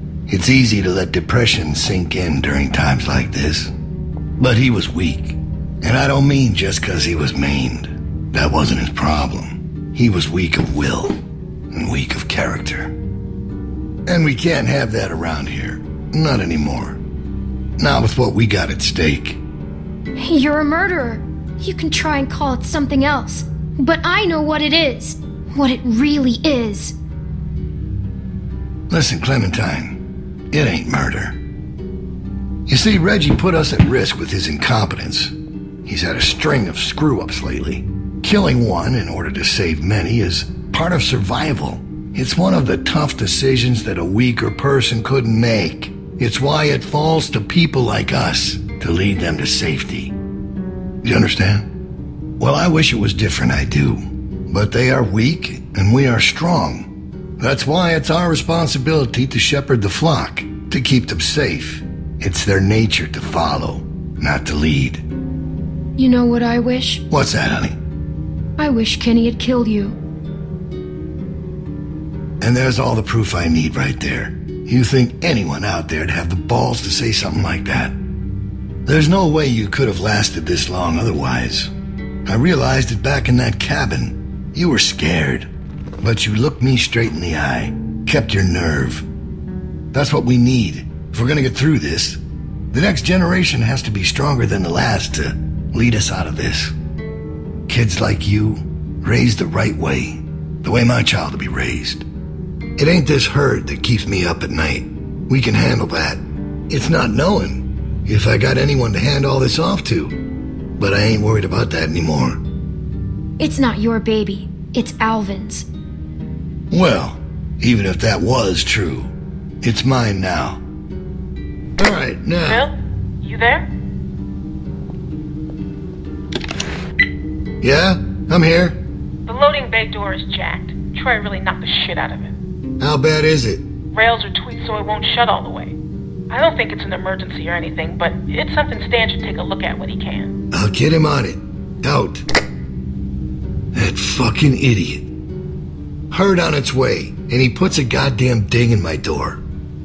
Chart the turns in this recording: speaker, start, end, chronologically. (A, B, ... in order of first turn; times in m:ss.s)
0:00.3-0:03.7 A
0:04.4-0:11.2 A
0:11.7-0:12.9 A
0:14.1-0:17.0 A
0:17.8-0:19.4 A
0:20.2-0:26.9 B
0:28.9-0:30.0 A
0:30.5-0:31.4 A
0:32.7-0:35.3 A
0:35.8-0:50.1 A
0:51.0-0:51.7 A
0:52.4-0:56.9 A
0:57.4-1:05.0 A
1:06.0-1:07.0 B
1:07.1-1:07.8 A
1:08.6-1:10.0 B
1:12.4-1:18.0 A
1:18.8-1:21.7 A
1:22.2-1:25.5 A
1:26.0-1:29.0 A
1:29.9-1:32.2 A
1:32.7-1:36.7 A
1:37.7-1:42.0 A
1:42.8-1:50.2 A
1:50.8-1:52.4 A
1:53.4-1:55.6 B
1:56.7-2:00.6 A
2:01.8-2:02.7 A
2:02.4-2:03.7 C
2:07.6-2:08.8 A
2:09.2-2:12.3 C
2:12.8-2:13.6 A
2:13.9-2:15.8 C
2:16.3-2:20.3 C
2:20.5-2:22.2 A
2:23.7-2:25.0 A
2:26.1-2:29.4 A